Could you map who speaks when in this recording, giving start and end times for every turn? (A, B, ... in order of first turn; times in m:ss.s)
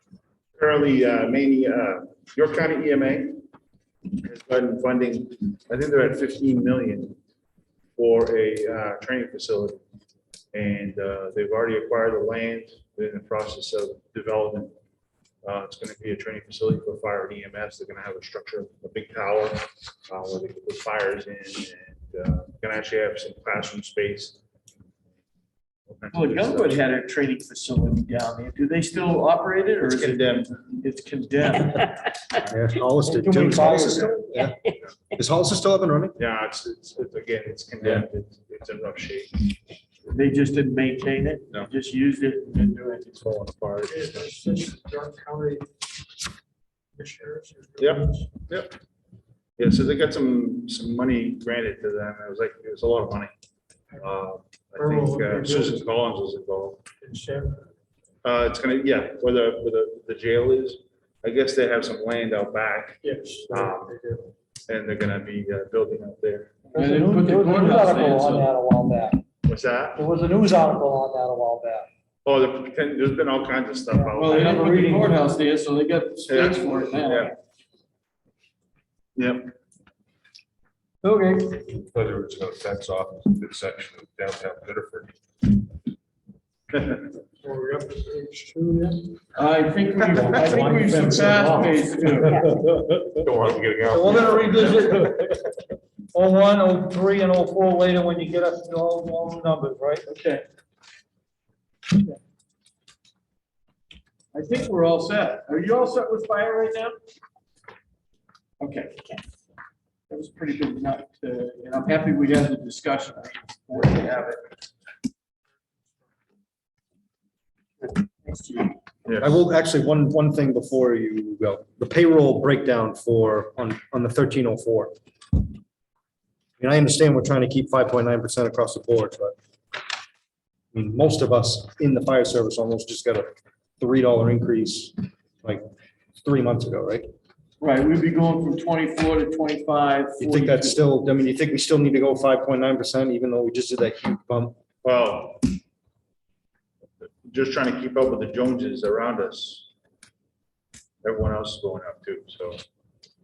0:00.6-0:03.4 A
0:04.2-0:07.2 A
0:08.0-0:09.8 A
0:10.5-0:14.7 A
0:15.4-0:24.4 A
0:25.9-0:26.8 A
0:26.1-0:31.9 B
0:29.8-0:30.6 A
0:32.4-0:34.6 C
0:33.0-0:34.3 D
0:35.1-0:36.2 C
0:36.2-0:39.5 A
0:40.1-0:43.2 B
0:43.2-0:44.3 A
0:43.8-0:45.6 E
0:47.0-0:48.2 E
0:47.8-0:48.7 A
0:49.6-0:53.3 A
0:54.0-0:56.8 A
0:54.8-0:55.7 E
0:57.0-0:57.6 E
0:58.2-1:04.0 A
1:03.0-1:04.2 E
1:04.7-1:06.5 A
1:06.7-1:08.5 B
1:06.7-1:09.2 D
1:09.4-1:10.0 A
1:09.9-1:11.9 D
1:12.2-1:14.6 A
1:13.9-1:15.2 D
1:14.2-1:17.3 B
1:16.3-1:17.3 A
1:19.2-1:19.5 A
1:21.0-1:21.6 D
1:21.6-1:25.6 F
1:26.8-1:27.0 A
1:27.5-1:28.3 E
1:29.3-1:32.4 B
1:30.4-1:31.7 D
1:33.2-1:34.8 A
1:33.9-1:34.2 F
1:33.9-1:35.4 D
1:36.1-1:40.0 D
1:40.1-1:40.4 B
1:44.3-1:47.0 B
1:48.6-1:49.2 B
1:50.1-1:54.4 B
1:57.8-1:58.8 B
1:59.0-1:59.4 A
1:59.2-2:04.9 C
2:06.6-2:09.3 C
2:10.7-2:13.3 C
2:13.8-2:15.6 C
2:16.2-2:17.0 C
2:17.6-2:20.8 B
2:20.2-2:24.6 C
2:24.8-2:25.5 A
2:27.2-2:29.7 A
2:31.0-2:32.6 A